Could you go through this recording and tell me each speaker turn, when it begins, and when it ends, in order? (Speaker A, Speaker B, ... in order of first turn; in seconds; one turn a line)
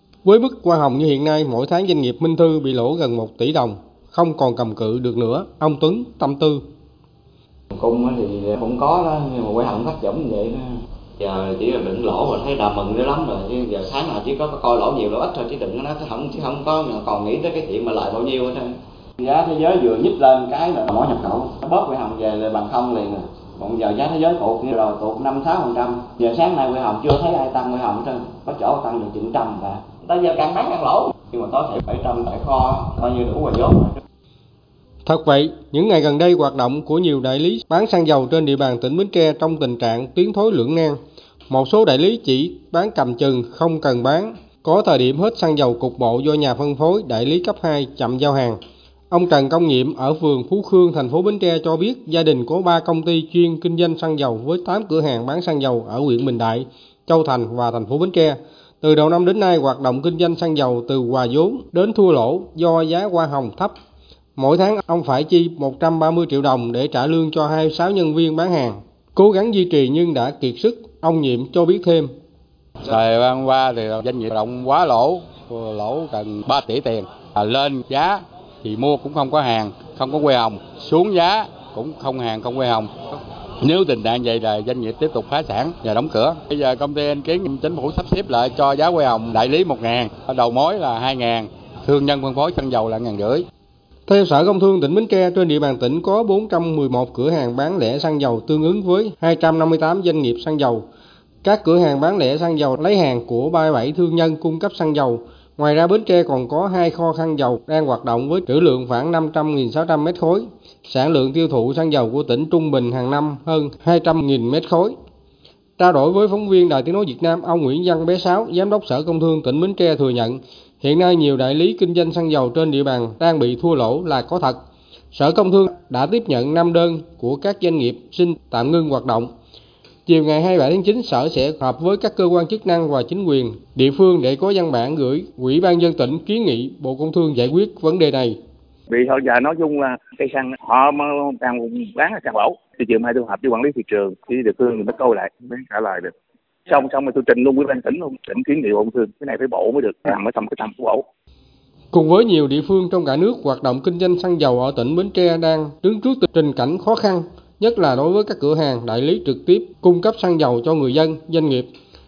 Speaker A: 0.2-6.6
Speaker B: 7.7-34.0
Speaker A: 35.0-41.0
Speaker A: 41.5-48.6
Speaker A: 49.1-63.7
Speaker A: 64.4-72.1
Speaker C: 72.8-82.9
Speaker C: 83.6-93.4
Speaker A: 94.1-100.8
Speaker A: 101.4-114.9
Speaker A: 115.8-124.6
Speaker A: 125.1-129.3
Speaker A: 130.1-138.3
Speaker D: 138.9-146.1
Speaker D: 146.7-151.0
Speaker A: 151.9-161.7